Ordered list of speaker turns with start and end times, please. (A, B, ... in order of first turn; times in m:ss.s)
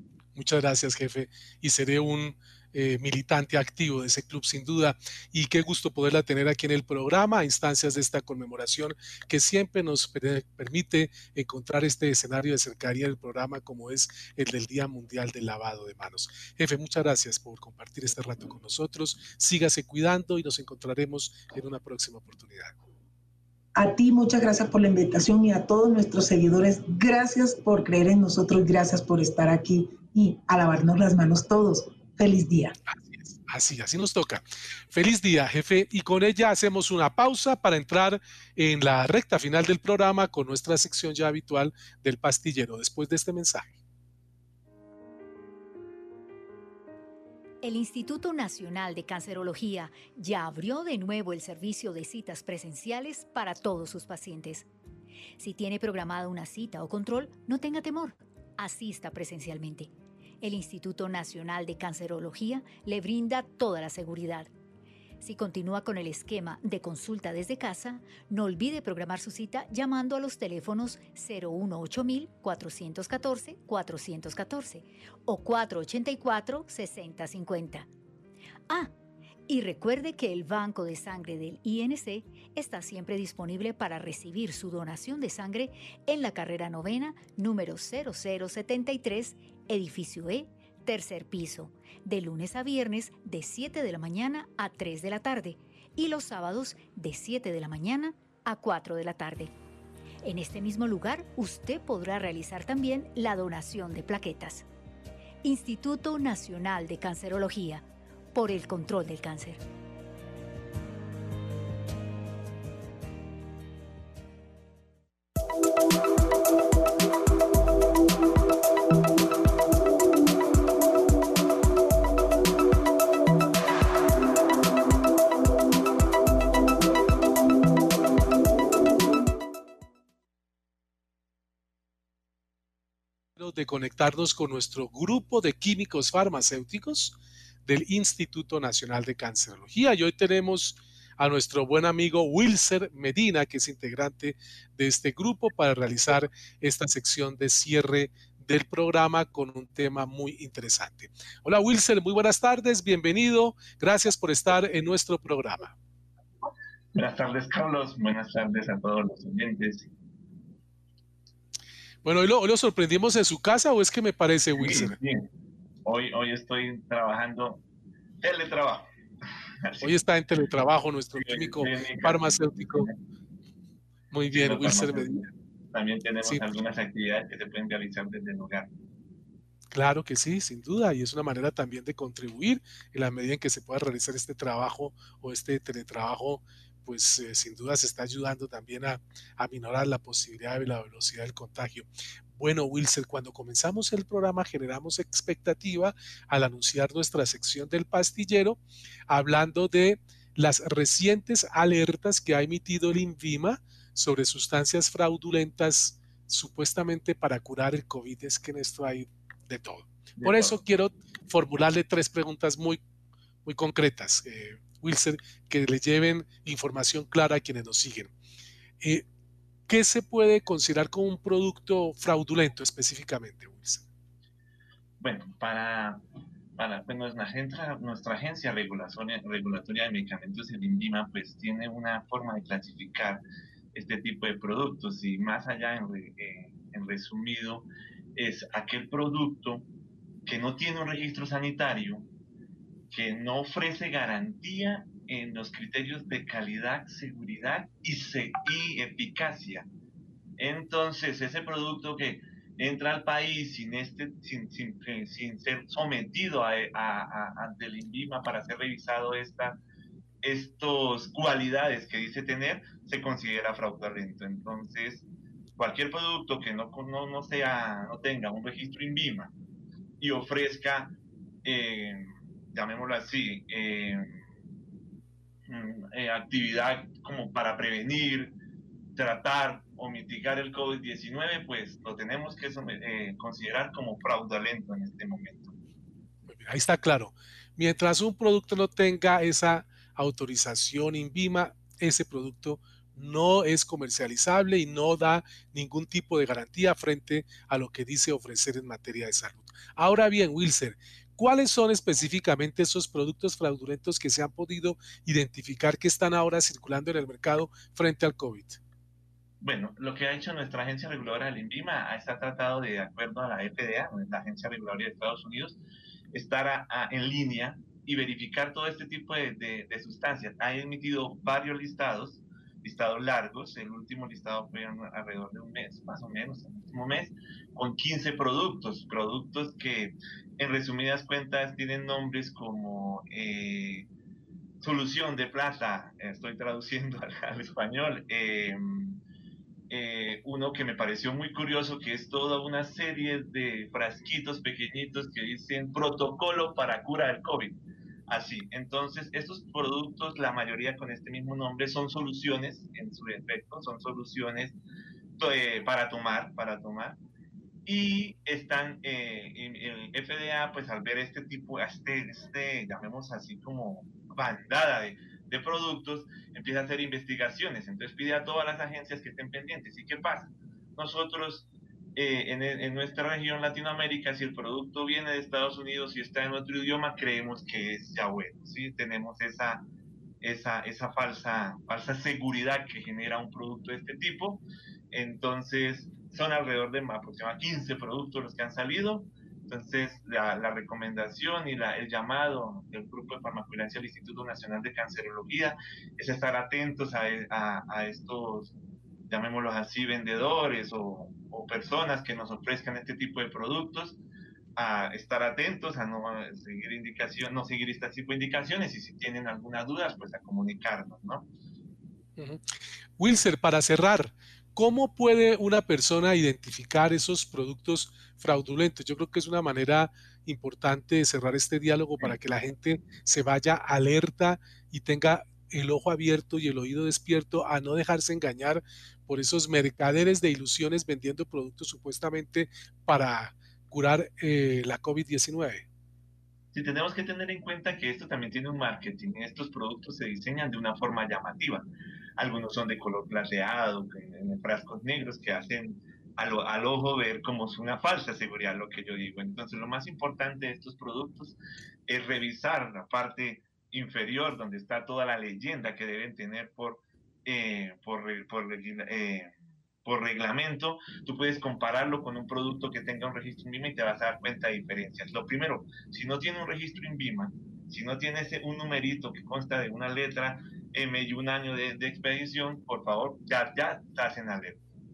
0:00.3-0:22.8 A
0:23.7-0:32.8 B
0:32.9-0:43.8 A
0:47.6-0:54.7 C
0:55.4-1:04.5 C
1:05.2-1:17.9 C
1:19.5-1:39.5 C
1:40.2-1:44.6 C
1:45.4-1:49.6 C
2:13.4-2:35.7 A
2:36.9-2:39.9 D
2:42.0-2:45.0 A
2:44.6-2:45.3 D
2:45.8-2:47.6 D
2:48.2-2:48.9 D
2:49.6-2:49.9 D
2:49.8-2:52.9 A
2:51.2-2:53.0 D
2:54.1-2:55.2 A
2:54.3-2:58.7 D
2:59.7-3:32.8 A
3:30.2-3:30.6 D
3:33.4-3:38.1 A
3:39.7-3:43.8 A
3:45.0-3:46.0 D
3:46.6-3:53.2 D
3:53.7-3:59.6 D
4:00.2-4:02.1 D
4:02.9-4:09.7 D
4:10.4-4:19.6 D
4:20.2-4:25.0 D
4:25.6-4:29.3 D
4:30.0-4:34.1 D
4:35.5-4:38.4 D
4:38.9-4:45.5 D
4:46.2-5:08.6 A
5:09.4-5:15.6 D
5:16.1-5:33.9 D
5:34.6-5:39.0 D
5:39.7-5:54.6 D
5:55.2-5:57.0 D
5:57.6-6:19.7 D
6:20.2-6:38.5 D
6:39.1-6:44.0 D
6:44.6-6:51.3 D
6:52.2-7:15.6 A
7:16.5-7:39.3 D
7:39.8-7:54.6 D